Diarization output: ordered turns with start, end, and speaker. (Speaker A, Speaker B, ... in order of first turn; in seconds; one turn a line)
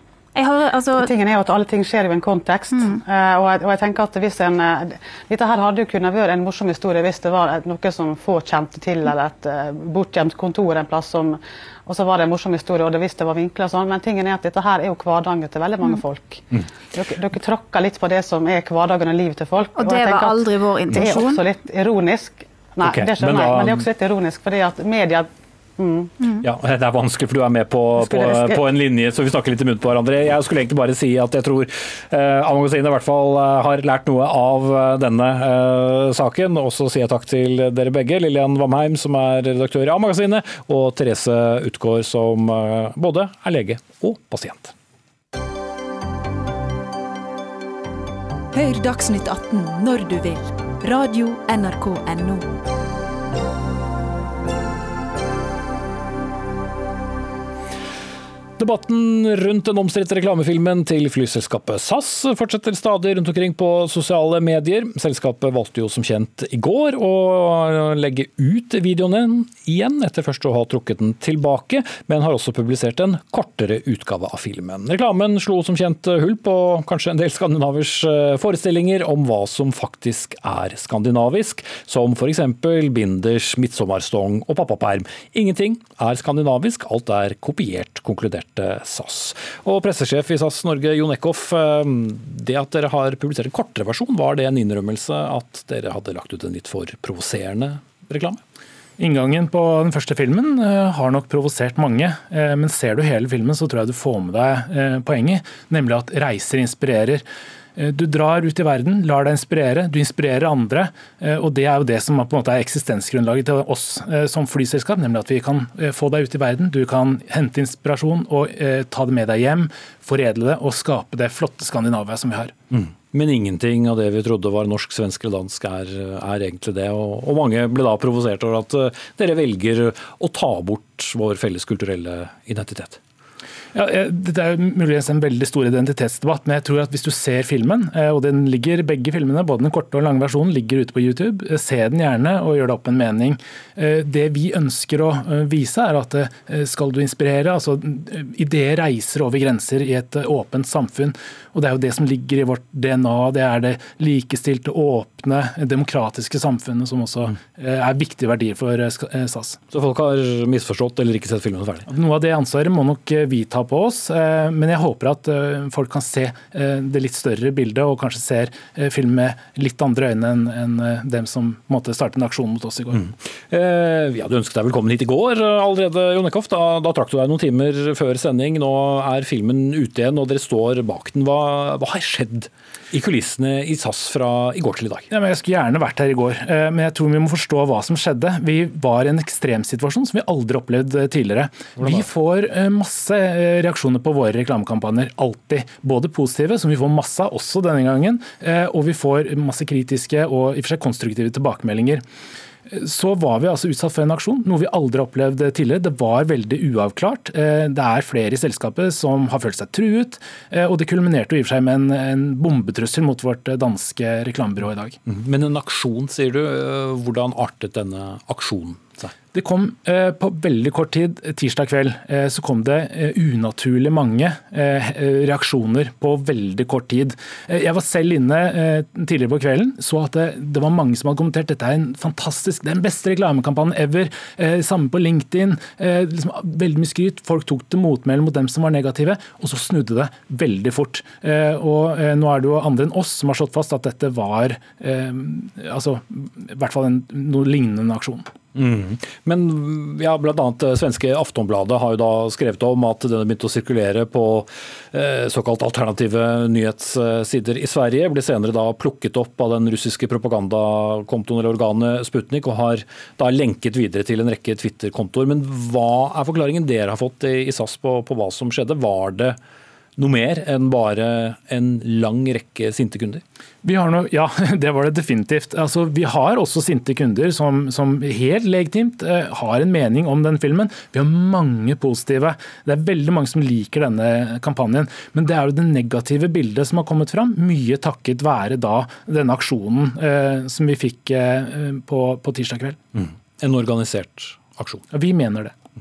Speaker A: 0.3-1.1
Speaker B: 0.9-26.1
Speaker A: 2.7-3.0
Speaker A: 19.8-21.4
Speaker C: 22.8-23.9
Speaker C: 26.4-44.7
Speaker B: 28.0-28.7
Speaker D: 48.5-52.5
Speaker C: 58.6-98.4
Speaker E: 99.0-107.2
Speaker E: 107.8-122.5
Speaker C: 122.7-133.0
Speaker E: 133.7-159.6
Speaker C: 159.7-161.9
Speaker E: 161.9-173.0
Speaker C: 172.9-185.1
Speaker E: 185.1-202.0
Speaker C: 191.8-192.1
Speaker E: 202.7-215.0
Speaker C: 215.1-219.1
Speaker E: 219.3-248.3
Speaker C: 248.6-269.4
Speaker C: 270.0-273.2
Speaker E: 273.6-292.8
Speaker C: 292.9-294.9
Speaker E: 294.9-295.5